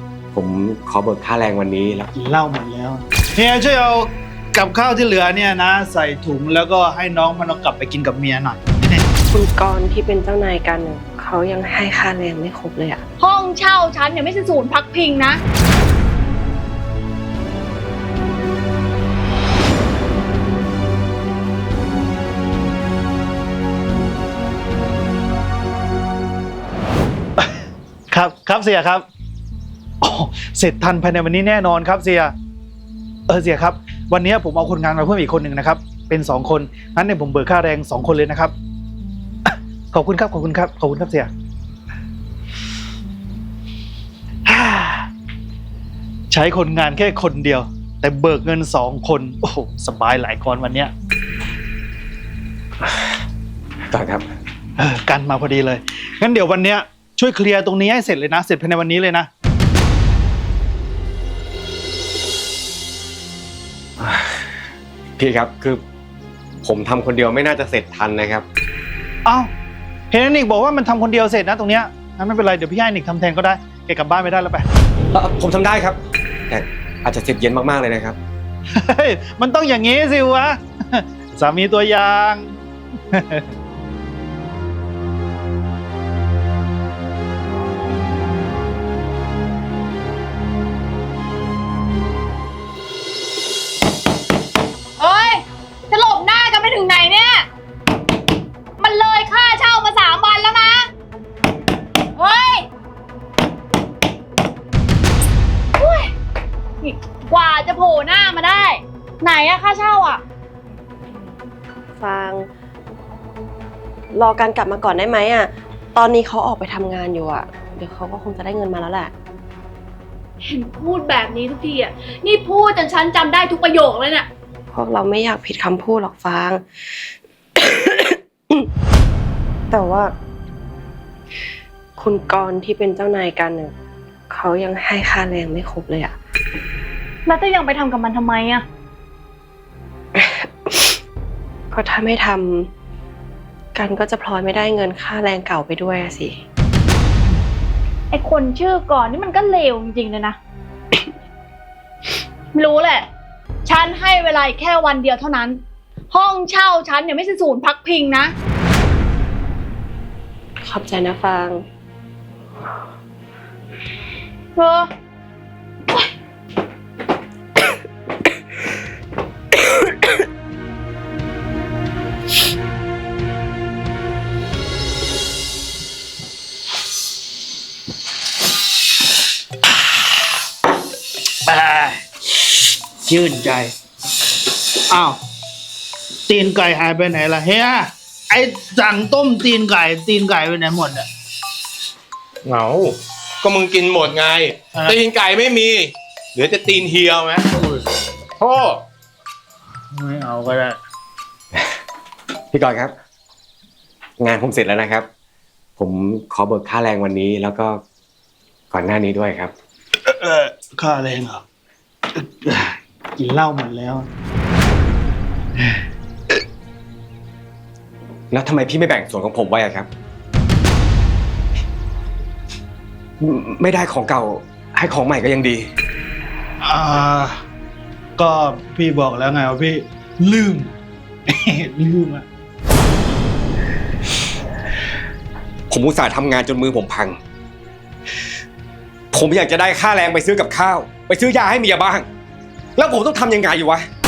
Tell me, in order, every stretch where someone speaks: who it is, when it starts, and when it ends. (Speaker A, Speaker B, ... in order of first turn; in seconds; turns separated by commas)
Speaker A: 0.3-2.1, Speaker B: 2.1-9.1, Speaker C: 9.3-13.0, Speaker D: 13.2-15.4, Speaker B: 28.1-29.1, Speaker B: 30.0-32.3, Speaker B: 33.3-38.5, Speaker B: 39.4-41.3, Speaker B: 44.5-45.1, Speaker B: 46.3-50.9, Speaker A: 53.9-54.2, Speaker B: 54.8-59.3, Speaker A: 64.0-64.4, Speaker A: 65.2-65.8, Speaker A: 66.6-68.5, Speaker B: 69.2-69.5, Speaker B: 70.1-74.7, Speaker A: 75.1-76.0, Speaker A: 76.5-78.2, Speaker B: 78.7-82.5, Speaker B: 83.1-83.5, Speaker D: 95.0-97.5, Speaker D: 98.8-100.9, Speaker D: 102.2-102.7, Speaker D: 105.8-106.1, Speaker D: 106.8-110.2, Speaker C: 112.0-112.5, Speaker C: 114.1-119.1, Speaker D: 120.5-124.3, Speaker C: 124.7-128.7, Speaker C: 129.7-130.1, Speaker C: 132.0-133.7, Speaker C: 134.3-136.2, Speaker D: 137.3-138.6, Speaker C: 140.1-141.0, Speaker C: 141.7-142.7, Speaker C: 143.7-146.4, Speaker D: 148.1-150.4, Speaker D: 152.5-153.1, Speaker D: 153.6-158.3, Speaker C: 160.6-161.6, Speaker D: 164.6-164.9, Speaker B: 181.4-182.0, Speaker B: 183.0-183.7, Speaker B: 184.8-185.2, Speaker B: 186.3-191.1, Speaker E: 192.4-197.6, Speaker E: 198.4-198.8, Speaker B: 199.9-200.8, Speaker A: 202.5-202.9, Speaker A: 204.2-205.1, Speaker A: 205.8-207.8, Speaker A: 208.7-209.5, Speaker B: 210.0-211.4, Speaker B: 212.1-214.1, Speaker A: 218.3-219.9, Speaker A: 223.2-225.7, Speaker B: 226.6-227.4, Speaker B: 228.2-230.7, Speaker B: 231.3-232.2, Speaker A: 235.7-237.2, Speaker A: 239.1-242.1, Speaker A: 242.8-243.8